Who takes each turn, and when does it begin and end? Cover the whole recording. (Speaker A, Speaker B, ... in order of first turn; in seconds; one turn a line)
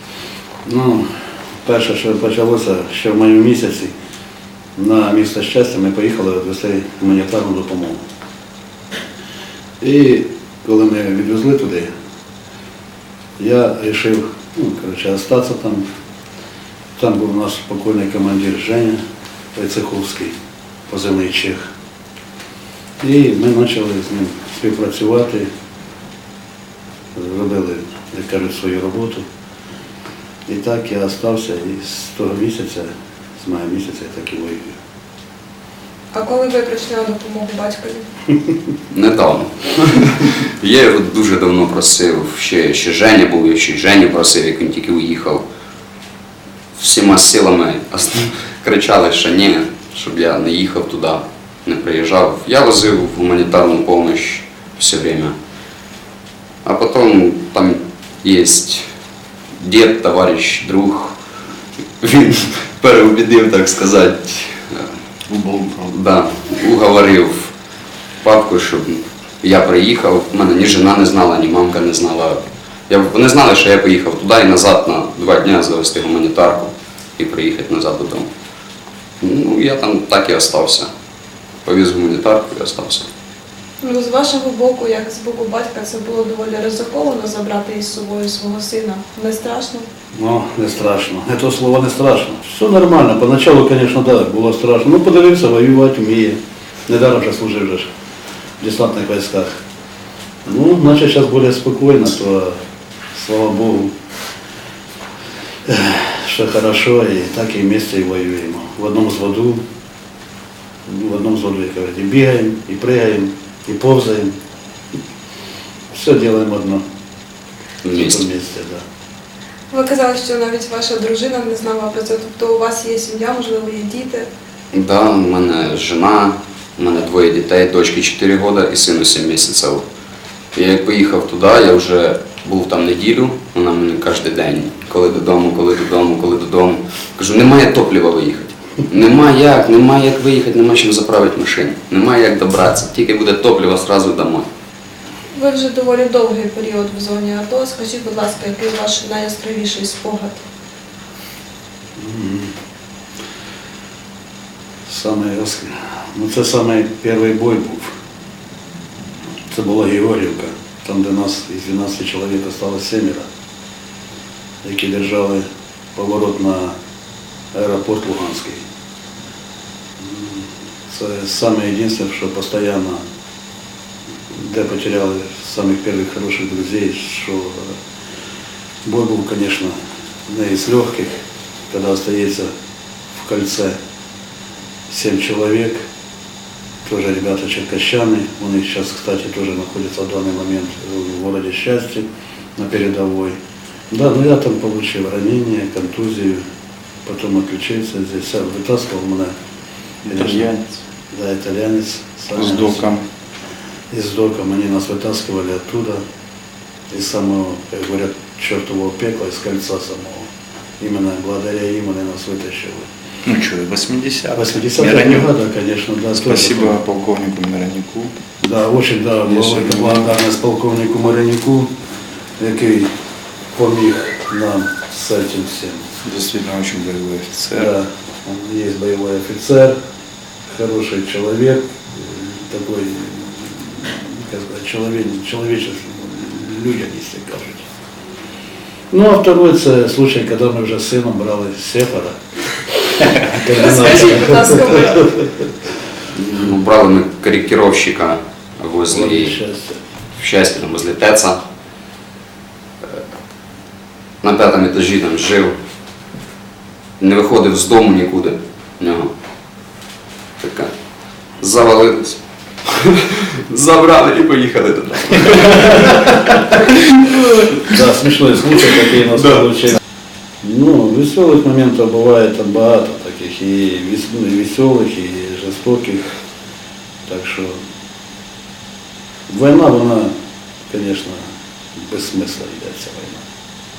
Speaker A: 0.6-1.1
Speaker A: 1.6-3.9
Speaker A: 4.8-8.0
Speaker A: 9.8-11.9
Speaker A: 13.4-15.8
Speaker A: 17.0-19.0
Speaker A: 19.5-20.3
Speaker A: 20.9-21.6
Speaker A: 23.0-25.5
Speaker A: 27.1-29.2
Speaker A: 30.5-34.8
Speaker B: 36.1-38.0
Speaker C: 38.9-45.4
Speaker C: 46.8-55.3
Speaker C: 56.6-58.8
Speaker C: 59.6-61.1
Speaker C: 62.0-64.9
Speaker D: 65.3-65.9
Speaker C: 65.9-67.5
Speaker C: 68.2-78.3
Speaker C: 79.2-80.9
Speaker C: 81.6-83.1
Speaker B: 83.8-89.8
Speaker A: 90.1-97.9
Speaker A: 98.6-99.5
Speaker A: 100.4-102.6
Speaker A: 103.1-103.9
Speaker A: 105.7-109.6
Speaker A: 110.9-114.3
Speaker A: 115.9-116.8
Speaker C: 117.8-118.2
Speaker A: 117.9-118.8
Speaker B: 119.7-124.3
Speaker C: 124.7-129.8
Speaker C: 130.5-144.4
Speaker B: 145.3-150.4
Speaker A: 152.0-152.5
Speaker A: 154.8-157.9
Speaker A: 159.5-163.3
Speaker A: 164.6-165.4
Speaker A: 165.9-166.7
Speaker A: 167.5-168.6
Speaker A: 170.0-173.0
Speaker A: 174.3-177.7
Speaker A: 178.8-179.8
Speaker A: 180.3-181.1
Speaker A: 181.7-182.5
Speaker A: 183.1-183.7
Speaker A: 184.9-185.8
Speaker A: 186.8-192.0
Speaker A: 192.6-193.3
Speaker A: 193.9-196.4
Speaker A: 197.1-199.3
Speaker D: 200.0-200.8
Speaker A: 200.1-200.5
Speaker A: 201.1-202.8
Speaker D: 202.3-203.0
Speaker A: 203.9-206.0
Speaker A: 206.9-210.3
Speaker A: 210.8-212.9
Speaker D: 213.2-215.3
Speaker A: 214.3-216.8
Speaker D: 216.1-218.1
Speaker A: 218.4-221.7
Speaker D: 219.2-220.1
Speaker A: 222.4-222.9
Speaker A: 223.6-225.8
Speaker D: 226.0-227.7
Speaker A: 227.5-229.8
Speaker A: 230.5-237.6
Speaker A: 238.9-242.2
Speaker A: 242.7-245.2
Speaker B: 243.5-245.1
Speaker C: 246.1-249.3
Speaker A: 248.9-249.8
Speaker C: 250.2-251.4
Speaker C: 254.2-255.5
Speaker C: 257.0-259.1
Speaker C: 260.4-260.7
Speaker C: 261.4-267.6
Speaker A: 267.6-269.8
Speaker A: 270.4-276.0
Speaker A: 277.1-277.6
Speaker A: 279.3-280.1
Speaker A: 280.7-281.2
Speaker A: 281.8-283.2